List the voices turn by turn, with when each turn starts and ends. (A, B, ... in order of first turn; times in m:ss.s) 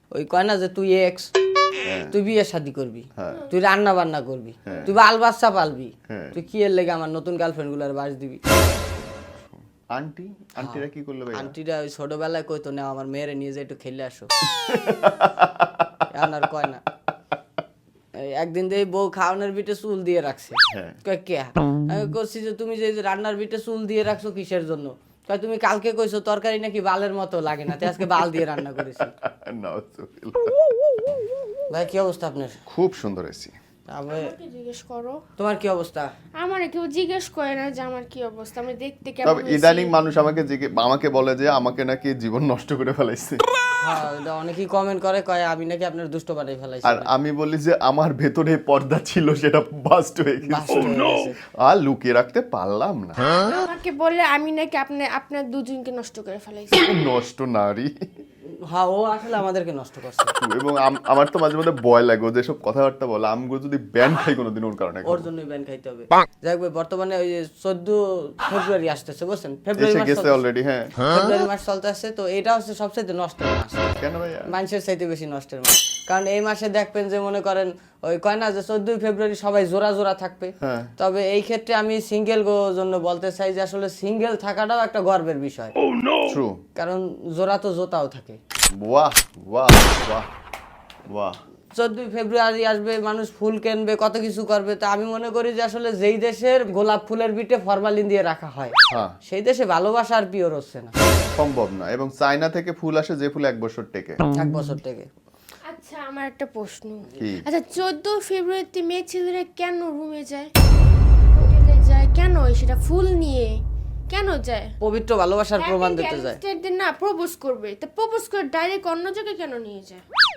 0:00.1-0:01.3 A
0:01.8-0:02.2 B
0:02.1-0:08.4 A
0:03.2-0:03.5 B
0:04.7-0:05.0 B
0:06.1-0:06.4 B
0:08.6-0:11.6 B
0:10.6-0:14.3 A
0:14.6-0:16.1 B
0:16.1-0:16.8 A
0:18.2-0:29.1 A
0:20.7-0:21.0 B
0:27.8-0:28.4 B
0:29.1-0:31.1 B
0:31.7-0:32.6 A
0:32.7-0:33.6 B
0:33.9-0:34.3 A
0:34.1-0:35.2 C
0:35.4-0:36.1 A
0:36.4-0:40.0 C
0:39.2-0:43.4 B
0:43.8-0:47.1 A
0:46.8-0:53.3 B
0:50.4-0:51.4 A
0:53.3-0:56.8 C
0:56.8-0:57.9 B
0:58.5-1:00.3 A
1:00.4-1:05.3 B
1:05.0-1:10.4 A
1:09.8-1:11.1 B
1:11.0-1:25.8 A
1:14.0-1:14.5 B
1:20.6-1:20.9 B
1:26.2-1:26.6 B
1:26.8-1:28.4 A
1:28.8-1:30.3 B
1:31.1-1:31.4 B
1:31.8-1:41.0 A
1:38.9-1:39.2 B
1:41.3-1:44.2 B
1:44.3-1:45.1 A
1:45.7-1:50.5 C
1:47.2-1:47.5 B
1:51.3-1:54.7 C
1:54.8-1:56.4 A
1:55.6-2:00.0 C